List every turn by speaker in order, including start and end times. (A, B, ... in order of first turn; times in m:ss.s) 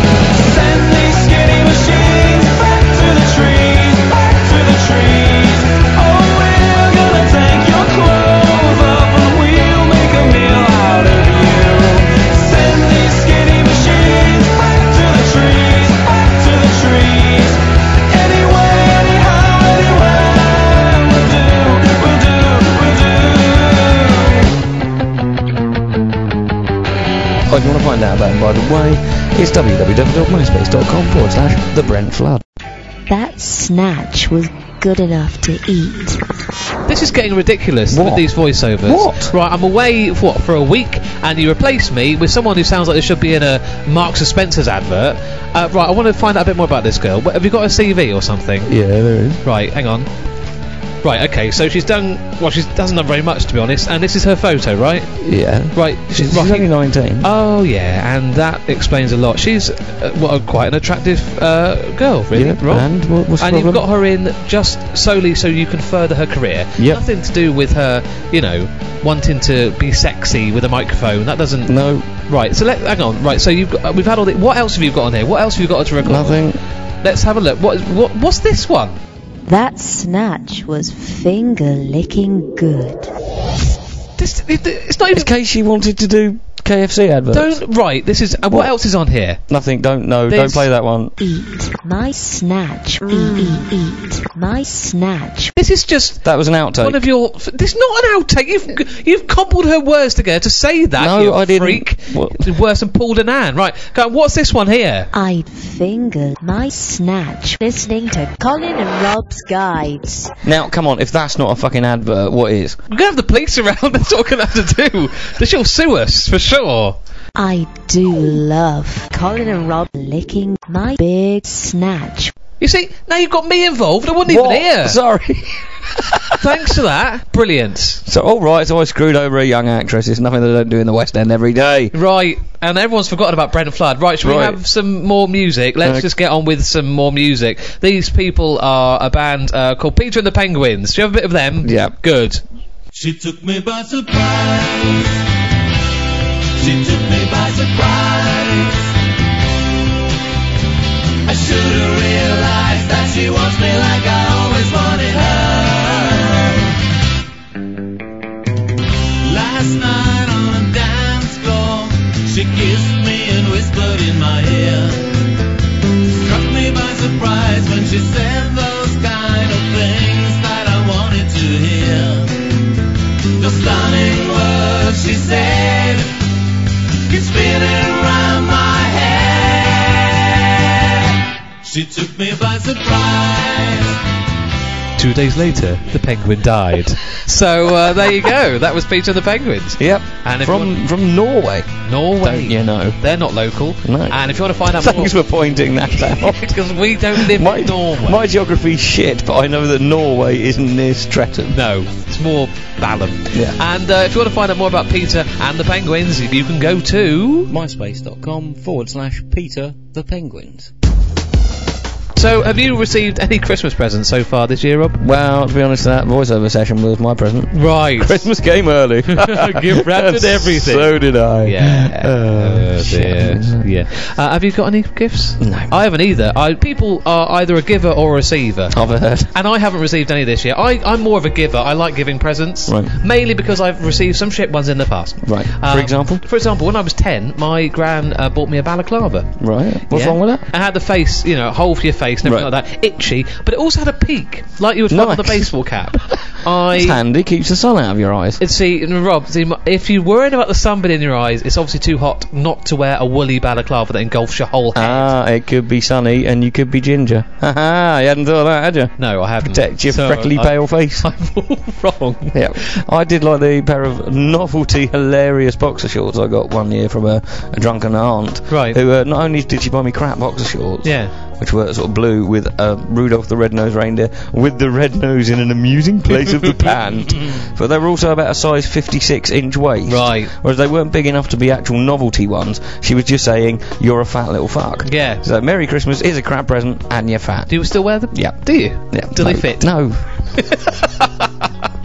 0:00.3-0:24.4 A
0:27.5-0:32.4 B
0:33.1-0:36.2 C
0:36.9-0:48.7 D
0:37.9-0:38.3 B
0:38.8-0:39.3 B
0:48.7-0:49.4 B
0:49.4-0:50.1 D
0:51.0-0:55.2 D
0:55.2-0:57.3 B
0:55.7-0:56.7 D
0:57.2-1:11.8 D
1:02.3-1:03.8 B
1:06.8-1:07.0 B
1:11.7-1:12.1 B
1:12.3-1:16.4 D
1:16.0-1:16.6 B
1:17.0-1:19.0 D
1:19.5-1:23.1 C
1:24.2-1:25.3 D
1:25.1-1:27.6 B
1:27.3-1:29.4 D
1:28.5-1:28.7 B
1:29.5-1:31.1 B
1:30.3-1:30.7 D
1:31.2-1:35.5 C
1:35.6-1:45.1 D
1:36.2-1:37.0 B
1:41.0-1:42.5 B
1:45.1-1:50.3 C
1:50.4-1:52.8 B
1:52.9-1:57.0 D
1:57.4-2:02.3 C
2:02.6-2:05.0 D
2:04.2-2:06.5 B
2:06.4-2:08.0 D
2:08.1-2:11.9 B
2:11.9-2:22.4 D
2:14.2-2:14.6 B
2:15.8-2:16.1 B
2:21.6-2:22.0 B
2:23.0-2:25.1 E
2:23.0-2:24.1 A
2:26.6-2:28.8 E
2:26.9-2:27.7 A
2:31.3-2:36.6 E
2:39.2-2:45.1 E
2:43.5-2:44.4 A
2:46.2-2:52.4 E
2:46.3-2:49.5 A
2:51.1-2:52.1 A
2:53.4-2:56.1 E
2:53.4-2:54.5 A
2:55.0-2:55.4 A
2:57.1-3:00.4 E
2:57.3-2:57.6 A
2:58.2-2:58.5 A
3:01.6-3:04.0 E
3:02.0-3:02.6 A
3:05.0-3:10.8 D
3:09.8-3:13.0 B
3:11.8-3:15.2 D
3:13.8-3:21.6 B
3:16.2-3:18.2 D
3:21.5-3:27.5 D
3:23.3-3:23.6 B
3:27.5-3:30.7 B
3:32.2-3:35.0 D
3:35.0-3:43.7 B
3:37.5-3:38.3 D
3:39.1-3:59.3 D
3:45.4-3:45.7 B
3:48.7-3:49.3 B
3:52.7-3:53.0 B
3:55.2-3:56.2 B
3:59.4-4:00.4 B
3:59.9-4:07.0 D
4:02.2-4:02.5 B
4:04.9-4:08.4 B
4:08.4-4:15.1 D
4:14.8-4:21.1 B
4:19.0-4:22.8 D
4:22.3-4:50.0 B
4:28.5-4:28.8 D
4:30.8-4:31.1 D
4:39.9-4:40.3 D
4:44.8-4:45.2 D
4:47.5-4:49.8 D
4:50.3-4:51.3 D